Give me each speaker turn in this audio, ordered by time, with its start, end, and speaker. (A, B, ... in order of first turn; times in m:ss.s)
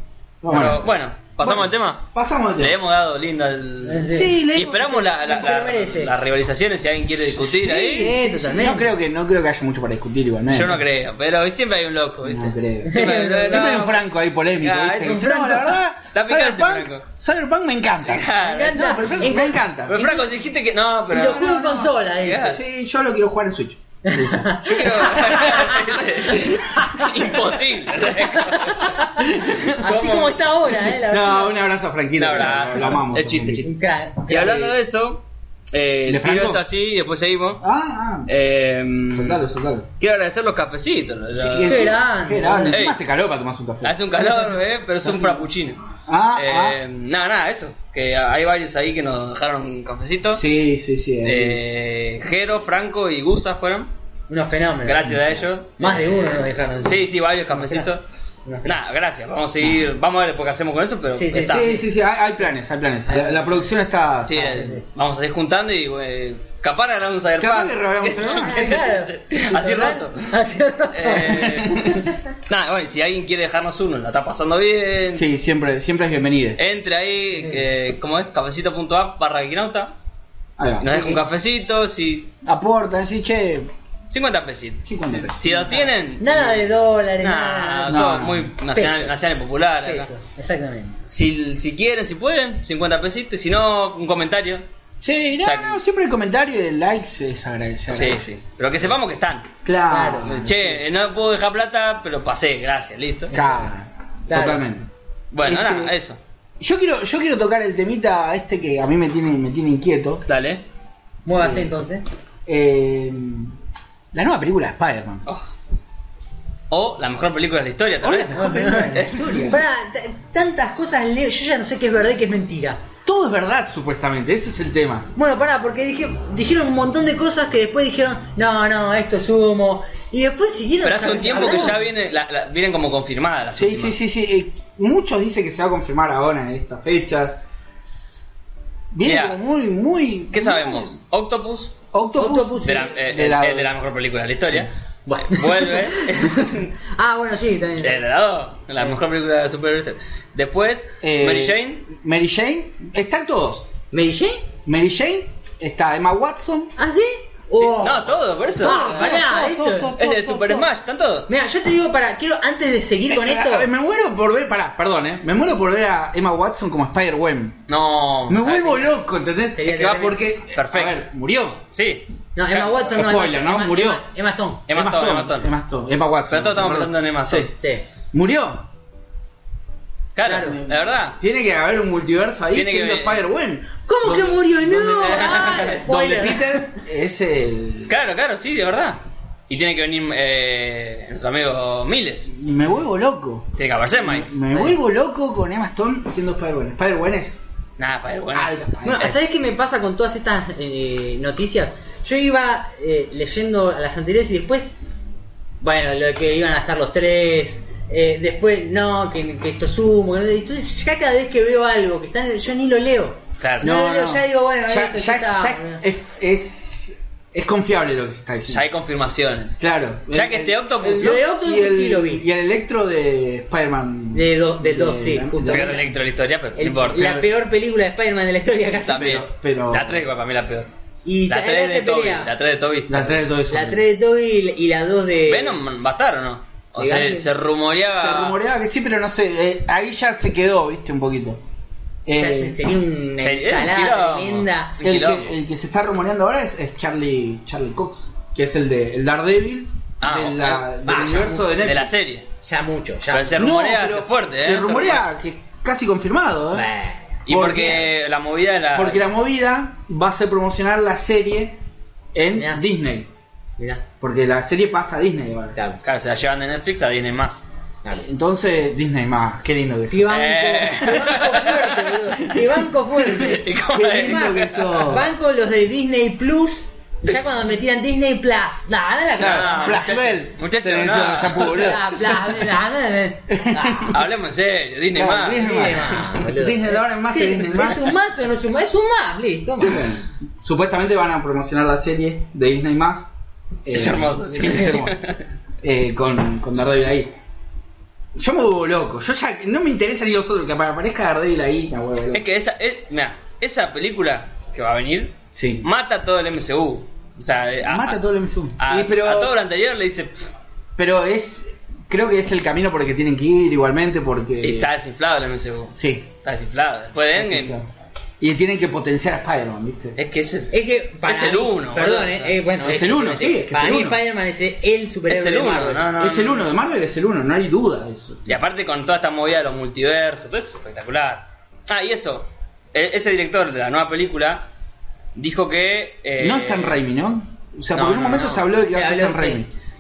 0:00.4-0:00.9 A
0:00.5-0:08.1 B
0:01.4-0:02.8 A
0:03.8-0:06.1 C
0:04.1-0:04.9 A
0:07.3-0:10.8 A
0:07.8-0:08.9 C
0:10.5-0:14.1 B
0:12.2-0:20.1 A
0:12.9-0:13.8 C
0:14.6-0:17.0 B
0:15.0-0:15.7 C
0:18.0-0:19.2 B
0:18.4-0:20.3 C
0:19.9-0:22.6 B
0:21.1-0:22.6 C
0:22.5-0:25.7 A
0:24.0-0:27.3 C
0:24.2-0:30.7 B
0:28.3-0:31.6 C
0:29.3-0:29.7 A
0:31.0-0:33.6 A
0:32.2-0:33.7 B
0:32.7-0:33.0 C
0:33.6-0:34.7 C
0:34.3-0:37.6 B
0:36.1-0:36.6 A
0:37.6-0:38.3 A
0:38.3-0:39.4 B
0:39.1-0:39.9 A
0:40.0-0:41.9 B
0:41.3-0:44.0 A
0:41.7-0:42.8 C
0:42.7-0:43.0 B
0:43.8-0:45.8 B
0:45.0-0:45.5 A
0:46.1-0:46.8 A
0:46.4-0:50.4 B
0:50.3-0:51.6 A
0:51.2-0:53.9 B
0:54.3-0:55.2 C
0:54.8-0:58.0 B
0:55.8-0:57.9 C
0:58.5-0:58.7 C
0:58.6-1:01.7 B
1:01.1-1:01.8 C
1:01.4-1:04.6 A
1:03.1-1:03.6 C
1:04.3-1:10.4 B
1:04.3-1:04.8 C
1:07.4-1:08.9 A
1:08.3-1:12.2 C
1:10.9-1:11.9 B
1:11.4-1:12.1 A
1:12.5-1:15.2 B
1:15.1-1:16.6 A
1:16.6-1:19.9 B
1:20.6-1:21.2 A
1:20.8-1:22.3 B
1:20.9-1:21.2 C
1:22.4-1:23.7 A
1:24.1-1:30.1 B
1:24.9-1:25.9 A
1:26.2-1:28.1 C
1:27.9-1:28.5 A
1:28.7-1:29.1 C
1:29.8-1:31.0 C
1:31.1-1:34.6 B
1:35.0-1:38.3 A
1:35.4-1:35.8 B
1:37.9-1:39.6 B
1:39.6-1:40.8 A
1:39.9-1:40.4 C
1:40.2-1:43.3 B
1:43.3-1:43.7 C
1:43.3-1:44.9 A
1:44.3-1:44.6 C
1:45.3-1:46.2 B
1:45.4-1:45.9 A
1:46.6-1:50.2 A
1:50.3-1:50.6 B
1:51.2-1:52.0 C
1:51.4-1:51.7 A
1:52.5-1:53.6 A
1:54.1-1:55.3 A
1:56.7-1:59.4 B
1:58.0-1:59.6 A
1:58.3-2:02.8 C
2:03.0-2:05.1 A
2:05.2-2:11.8 C
2:10.8-2:14.0 B
2:11.3-2:11.8 A
2:13.5-2:17.4 A
2:18.9-2:20.9 A
2:19.0-2:19.4 B
2:20.3-2:21.8 B
2:21.9-2:23.8 A
2:22.2-2:22.9 C
2:22.6-2:26.7 B
2:25.1-2:28.0 C
2:27.8-2:31.8 B
2:31.0-2:33.7 A
2:33.9-2:34.5 C
2:34.6-2:36.7 A
2:36.8-2:39.9 C
2:37.6-2:39.2 B
2:38.6-2:40.7 A
2:40.0-2:41.3 B
2:41.3-2:43.7 C
2:43.1-2:47.6 A
2:47.7-2:48.9 B
2:48.3-2:51.6 A
2:49.6-2:50.2 C
2:49.7-2:51.0 B
2:51.7-2:52.7 B
2:52.4-2:54.6 C
2:52.9-2:54.0 A
2:54.7-2:55.5 B
2:54.7-2:57.5 A
2:56.3-2:57.5 B
2:57.5-2:57.8 C
2:58.1-2:58.7 A
3:00.1-3:01.2 B
3:00.2-3:00.6 C
3:00.4-3:08.0 A
3:02.5-3:03.2 B
3:03.9-3:06.7 C
3:04.9-3:05.8 B
3:07.9-3:12.3 B
3:12.3-3:17.4 A
3:13.6-3:14.6 B
3:17.8-3:19.1 B
3:18.3-3:19.1 A
3:18.8-3:24.8 C
3:25.6-3:35.8 C
3:33.4-3:33.8 B
3:33.6-3:38.6 A
3:38.5-3:39.6 B
3:39.6-3:45.8 A
3:40.1-3:41.2 B
3:40.8-3:42.2 C
3:44.1-3:45.9 C
3:45.5-3:47.3 B
3:46.6-3:49.2 C
3:48.8-3:50.7 B
3:49.0-3:50.0 A
3:51.0-3:52.3 C
3:51.3-3:53.3 B
3:52.9-3:53.8 A
3:53.5-3:55.6 C
3:55.3-3:58.4 B
3:56.8-3:57.3 C
3:57.9-4:01.4 A
4:02.1-4:02.6 A
4:02.1-4:04.8 C
4:03.2-4:05.3 B
4:04.8-4:11.9 A
4:10.0-4:12.3 B
4:10.8-4:11.6 C
4:12.4-4:13.5 C
4:13.1-4:15.1 B
4:13.4-4:16.7 A
4:16.5-4:17.2 C
4:17.3-4:19.0 B
4:17.3-4:17.9 A
4:18.8-4:21.6 A
4:22.1-4:23.1 A
4:22.4-4:22.6 C
4:23.6-4:23.8 C
4:24.0-4:25.6 A
4:25.6-4:25.8 C
4:25.8-4:27.4 B
4:27.9-4:30.2 A
4:29.9-4:39.9 C
4:30.1-4:32.0 B
4:33.0-4:34.9 B
4:33.7-4:35.1 A
4:39.2-4:41.8 A
4:39.2-4:41.8 B
4:41.3-4:44.0 C
4:43.3-4:44.0 A
4:43.9-4:46.1 B
4:44.9-4:47.9 A
4:45.3-4:50.0 C
4:49.6-4:53.1 A
4:53.6-4:55.0 A
4:53.7-4:55.2 B
4:55.6-4:57.1 A
4:58.2-5:02.2 A
5:02.1-5:08.0 B
5:05.4-5:05.6 A
5:07.6-5:09.4 A
5:08.6-5:10.3 B
5:10.8-5:14.7 A
5:14.4-5:17.6 B
5:15.8-5:16.1 A
5:17.2-5:17.7 A
5:18.2-5:20.0 A
5:20.0-5:23.3 B
5:20.5-5:25.9 C
5:22.6-5:24.0 A
5:25.1-5:26.5 B
5:25.9-5:28.4 A
5:28.3-5:34.5 B
5:35.2-5:36.8 B
5:36.2-5:39.5 A
5:37.7-5:38.5 B
5:38.6-5:39.4 C